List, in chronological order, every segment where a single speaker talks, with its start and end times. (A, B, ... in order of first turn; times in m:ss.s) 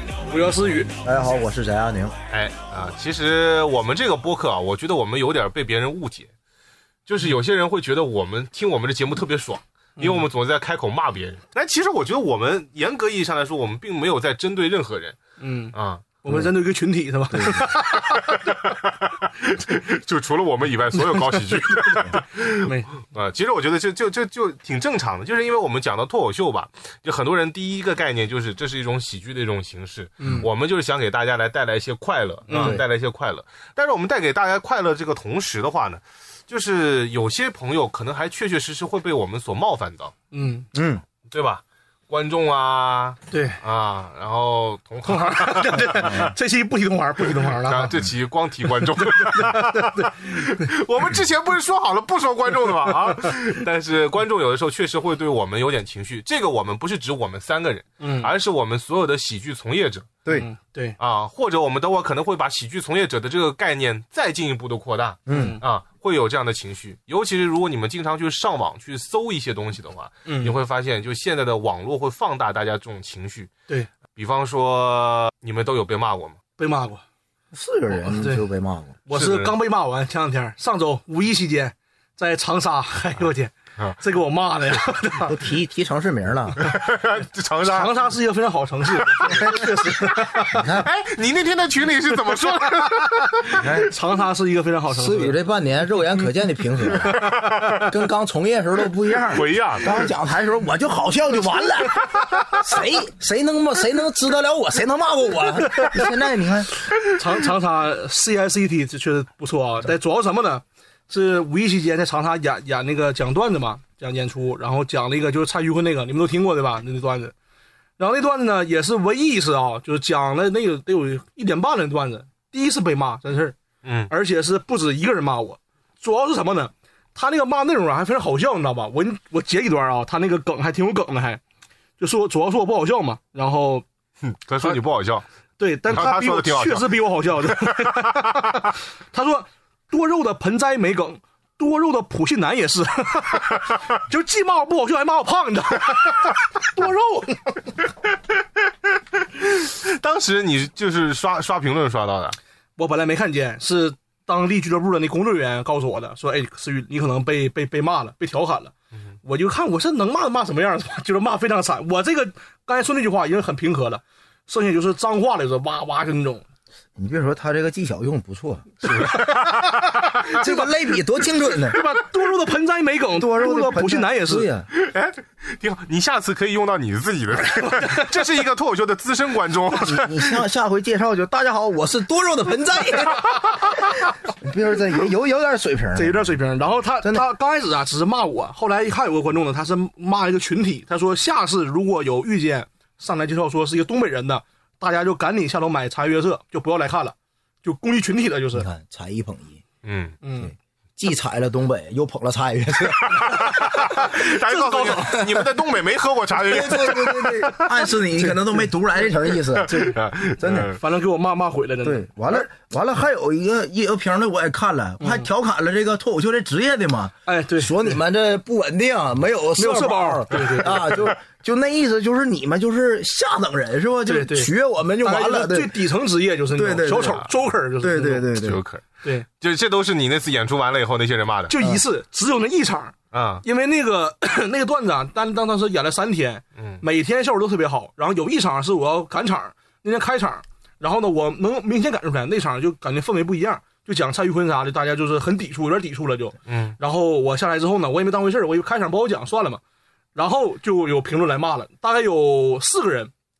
0:00.3-0:00.9 A
0:01.0-0:02.2 B
0:02.3-0:06.3 C
0:07.0-0:15.2 C
0:10.0-0:10.3 A
0:15.4-0:18.4 A
0:15.7-0:16.2 C
0:17.5-0:40.1 C
0:20.9-0:22.9 A
0:30.2-0:30.5 A
0:32.5-0:32.8 A
0:32.5-0:32.8 B
0:40.3-0:40.7 A
0:40.7-0:41.0 B
0:41.3-0:46.3 C
0:43.3-0:43.6 A
0:45.0-0:48.0 A
0:47.7-1:00.2 C
0:49.0-0:50.6 A
0:58.0-0:58.3 A
1:00.3-1:01.0 A
1:01.0-1:13.5 C
1:05.3-1:05.6 B
1:05.3-1:05.6 A
1:10.2-1:10.5 A
1:14.1-1:16.4 C
1:16.6-1:17.0 A
1:17.5-1:19.0 B
1:18.1-1:18.4 A
1:19.1-1:25.3 A
1:19.1-1:19.5 C
1:25.2-1:26.6 B
1:26.6-1:28.0 C
1:27.6-1:30.5 A
1:29.2-1:30.9 B
1:30.6-1:33.9 C
1:33.4-1:35.4 A
1:33.6-1:33.9 B
1:34.9-1:46.7 B
1:37.0-1:37.9 C
1:39.3-1:39.9 C
1:47.0-1:57.3 A
1:58.0-2:03.6 A
2:03.8-2:04.1 C
2:04.1-2:11.4 A
2:12.0-2:13.8 A
2:14.2-2:15.2 C
2:15.6-2:27.6 A
2:15.9-2:18.6 C
2:29.4-2:32.4 C
2:32.8-2:46.4 A
2:47.0-2:48.7 B
2:48.8-2:50.3 C
2:48.8-2:49.5 A
2:50.2-2:50.7 A
2:50.2-2:51.8 B
2:51.5-2:54.5 A
2:53.2-2:54.7 B
2:54.7-3:00.4 C
2:57.4-2:58.2 A
2:59.8-3:06.3 B
3:05.9-3:18.7 A
3:18.5-3:19.6 B
3:19.8-3:20.2 C
3:20.2-3:20.5 A
3:21.0-3:23.5 B
3:23.0-3:27.5 C
3:23.2-3:25.5 A
3:26.4-3:30.7 B
3:27.8-3:28.5 A
3:29.5-3:30.8 C
3:30.5-3:32.5 A
3:31.8-3:45.8 B
3:35.0-3:35.3 A
3:37.2-3:38.0 A
3:39.6-3:41.0 A
3:44.0-3:44.5 A
3:45.0-3:48.3 A
3:46.5-3:47.2 B
3:47.0-3:47.3 C
3:47.8-3:48.6 B
3:48.3-3:48.8 C
3:49.4-3:51.5 C
3:51.5-4:09.6 A
3:53.1-3:53.4 C
3:56.6-3:56.8 C
4:06.4-4:06.7 C
4:10.1-4:13.1 A